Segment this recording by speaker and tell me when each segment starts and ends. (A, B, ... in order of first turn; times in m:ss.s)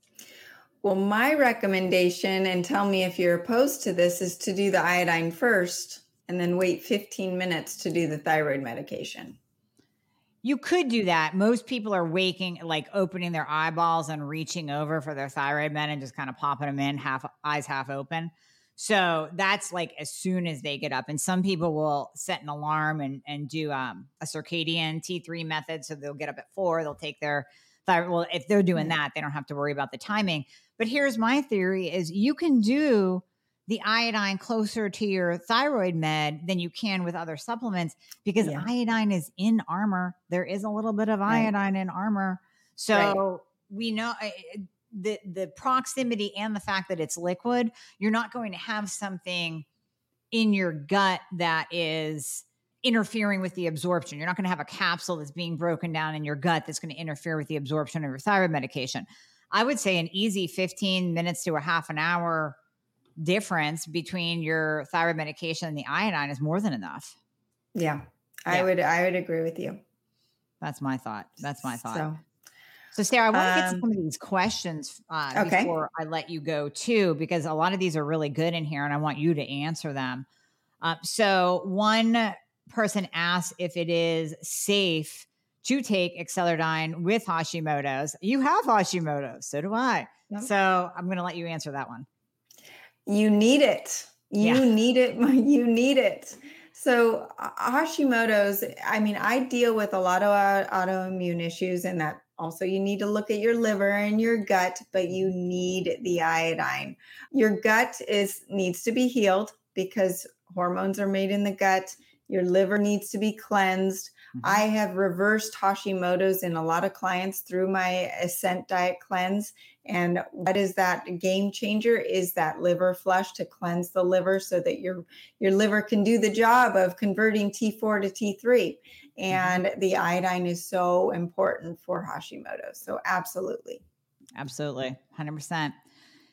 0:00.8-0:09.4 A
0:10.4-0:49.6 B
0:38.4-0:38.7 A
0:50.3-1:02.6 B
1:03.2-1:07.2 B
1:07.7-1:09.8 A
1:10.6-1:12.1 B
1:11.6-1:12.2 A
1:12.9-1:20.2 B
1:13.3-1:13.8 A
1:15.3-1:15.7 A
1:20.8-1:32.1 B
1:33.0-2:13.8 A
1:34.4-1:34.7 B
1:54.3-1:54.6 B
2:09.3-2:09.6 B
2:14.4-2:15.8 B